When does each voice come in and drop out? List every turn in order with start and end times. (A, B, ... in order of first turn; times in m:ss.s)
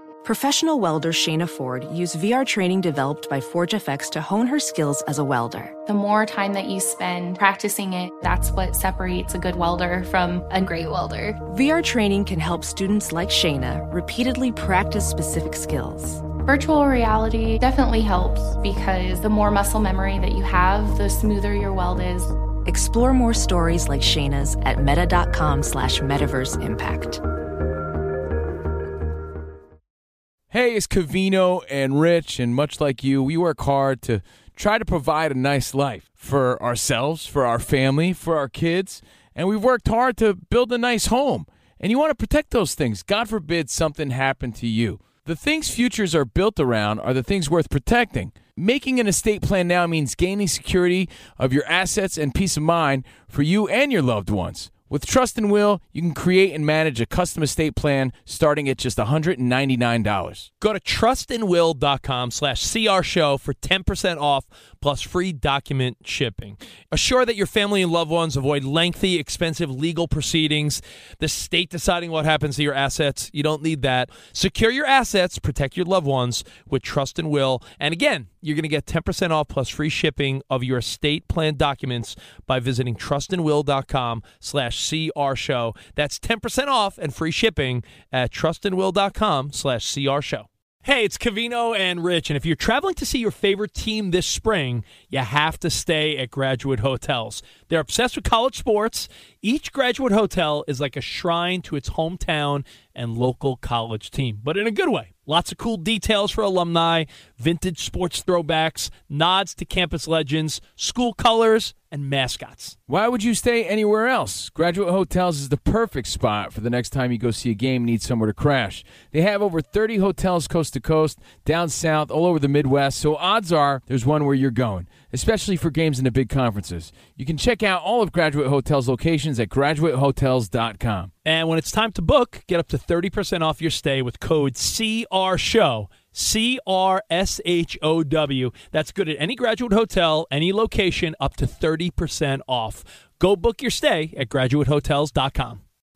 0:00.2-0:05.8 A
0:05.9-0:11.4 B
0:11.5-0:16.2 A
0:16.4-0:22.3 B
0:22.6-0:27.2 A
0:30.5-1:00.5 C
1:00.6-1:52.8 D
1:52.9-2:11.1 C
2:11.2-2:25.6 D